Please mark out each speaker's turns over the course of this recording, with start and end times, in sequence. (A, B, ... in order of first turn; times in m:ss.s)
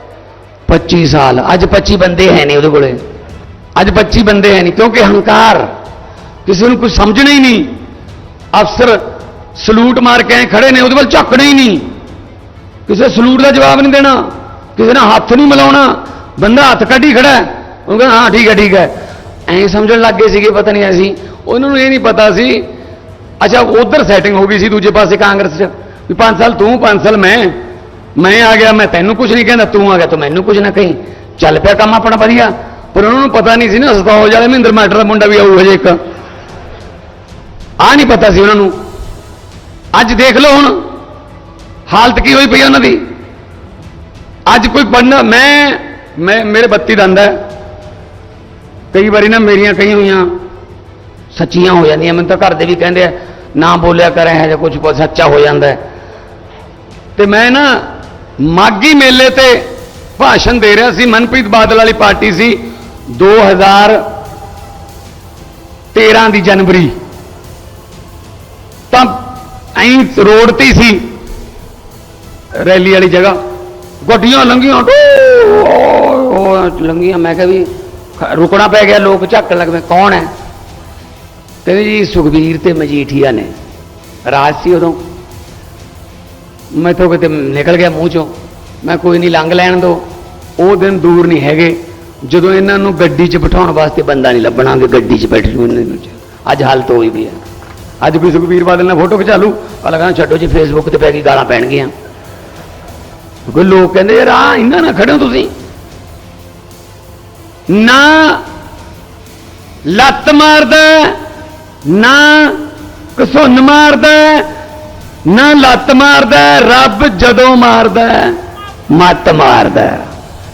0:00.7-0:03.0 A
0:03.8-0:05.7 A
0:06.5-0:07.7 A
0:08.5-0:09.0 A
0:09.6-0:11.8 A
0:12.9-0:14.2 A
0:14.8-0:18.9 A
0:19.5-0:22.6 A
0:23.4-0:27.6 A
0:28.2-0:36.0 A
0:37.8-0:38.7 A
0:39.9-0:40.8 A
0:41.9-0:43.0 A
0:44.5-0:47.4 A
0:48.9-0:50.3 A
0:51.3-0:55.8 A
0:57.2-0:57.8 A
0:58.4-0:59.7 A
1:00.2-1:04.0 A
1:05.9-1:06.9 A
1:08.9-1:11.1 A
1:12.6-1:13.4 A
1:14.0-1:20.3 A
1:21.6-1:23.5 A
1:24.3-1:25.0 A
1:26.7-1:28.3 A
1:28.8-1:30.0 A
1:30.6-1:37.4 A
1:38.0-1:41.9 A
1:43.5-1:45.5 A
1:47.7-1:48.4 A
1:49.8-1:51.2 A
1:51.9-1:52.6 A
1:53.2-1:54.5 A
1:55.3-1:58.4 A
1:58.9-2:00.1 A